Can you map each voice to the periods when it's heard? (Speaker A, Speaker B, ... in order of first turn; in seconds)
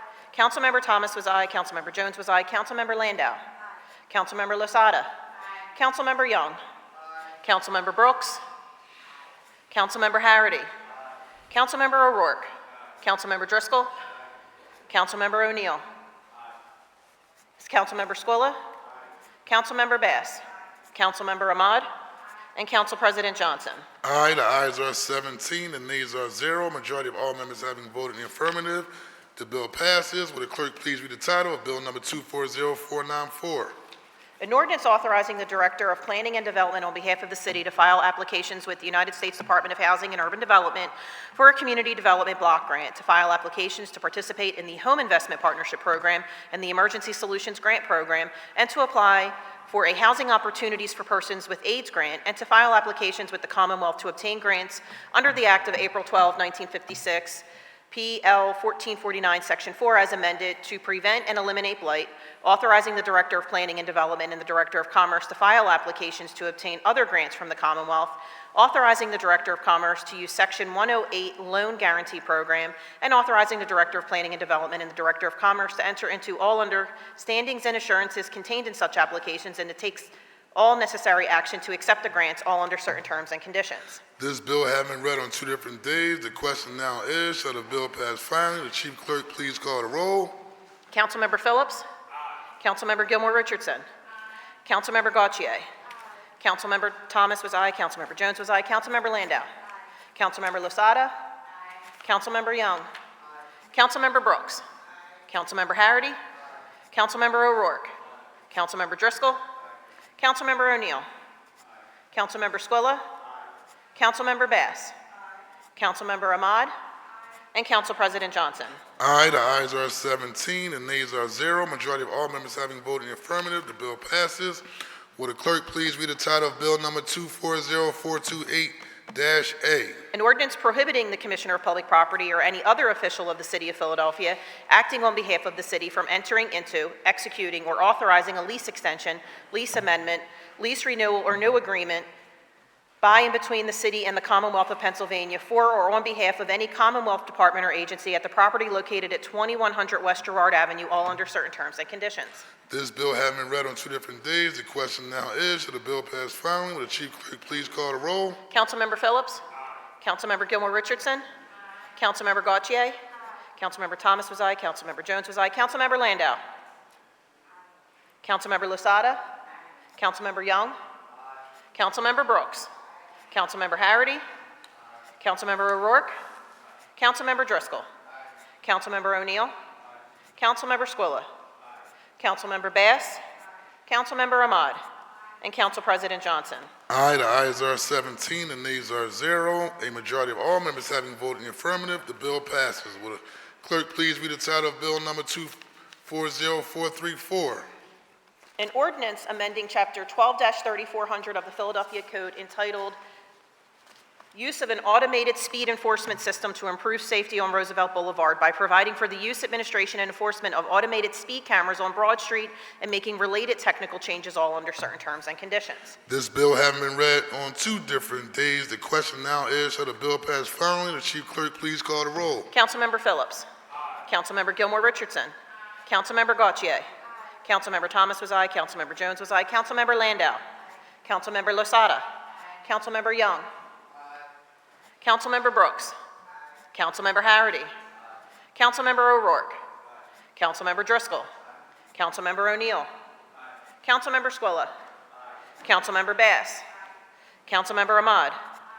Speaker A: 0.3-3.4, 4.1-5.1, 5.7-6.6, 7.4-8.4, 9.7-10.7, 11.5-13.9, 14.9-15.8, 17.6-18.6, 19.4-21.9, 22.6-23.8, 34.4-84.0, 90.9-91.8, 92.6-93.8, 94.7-95.7, 96.4-99.5, 100.1-101.1, 102.0-102.9, 103.7-104.6, 105.3-106.2, 106.9-107.9, 108.5-109.4, 110.2-111.0, 112.1-113.0, 114.0-114.9, 115.8-116.7, 117.5-118.8, 130.1-142.1, 143.0-152.4, 158.5-159.4, 160.0-161.2, 162.0-163.0, 163.6-166.4, 168.2-169.2, 170.0-170.8, 171.7-172.7, 173.3-174.2, 175.2-176.1, 177.0-177.8, 178.6-179.5, 180.4-181.3, 182.2-183.2, 183.9-184.8, 185.4-186.7, 198.6-203.0, 204.3-216.0, 222.5-223.5, 224.1-225.3, 225.8-226.9, 227.4-230.4, 231.0-232.1, 232.6-233.5, 235.0-235.9, 236.7-237.7, 238.5-239.6, 240.3-241.3, 241.9-242.9, 243.8-244.7, 245.6-246.6, 247.5-248.3
Speaker B: 24.0-33.7, 84.2-90.4, 119.0-124.6, 125.2-130.0, 152.7-158.4, 186.9-197.7, 216.1-222.5